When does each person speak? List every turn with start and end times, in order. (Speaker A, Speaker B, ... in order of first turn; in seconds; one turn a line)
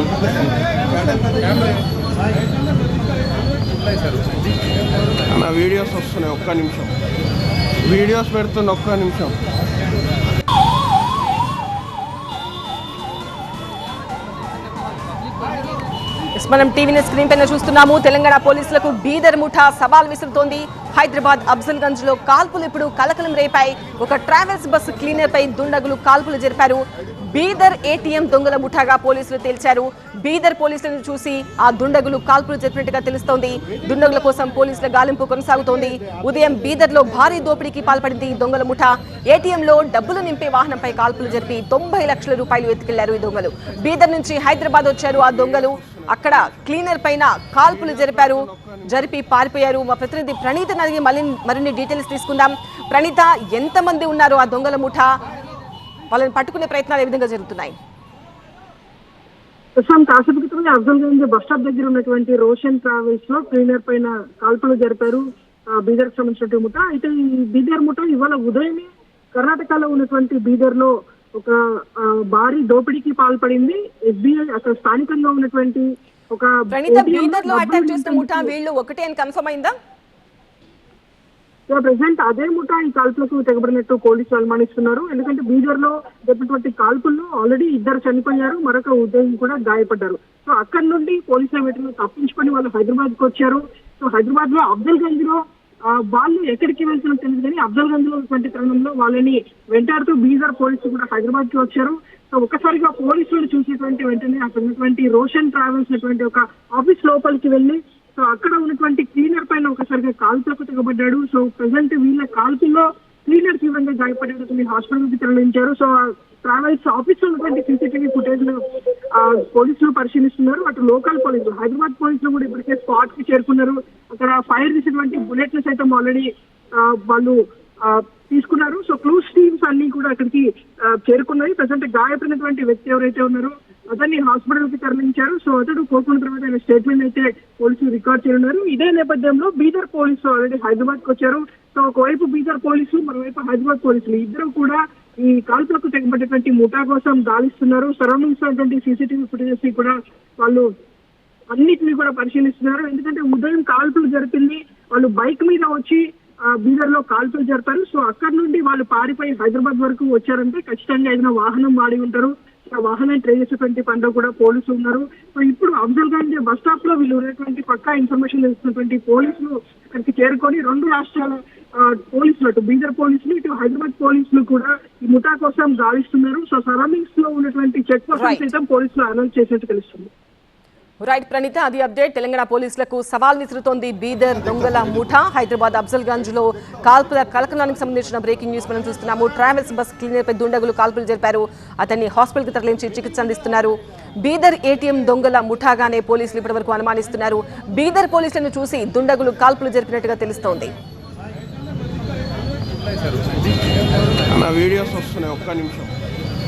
Speaker A: 5.3-6.9
Speaker A: 7.8-9.4
Speaker B: 16.4-55.1
Speaker A: 45.1-46.6
Speaker A: 47.6-48.9
Speaker B: 56.1-57.8
Speaker C: 59.8-78.5
Speaker B: 76.7-79.7
Speaker C: 81.7-118.6
Speaker C: 119.1-150.7
Speaker C: 151.5-180.1
Speaker B: 178.1-178.4
Speaker B: 181.0-200.7
Speaker A: 204.3-205.9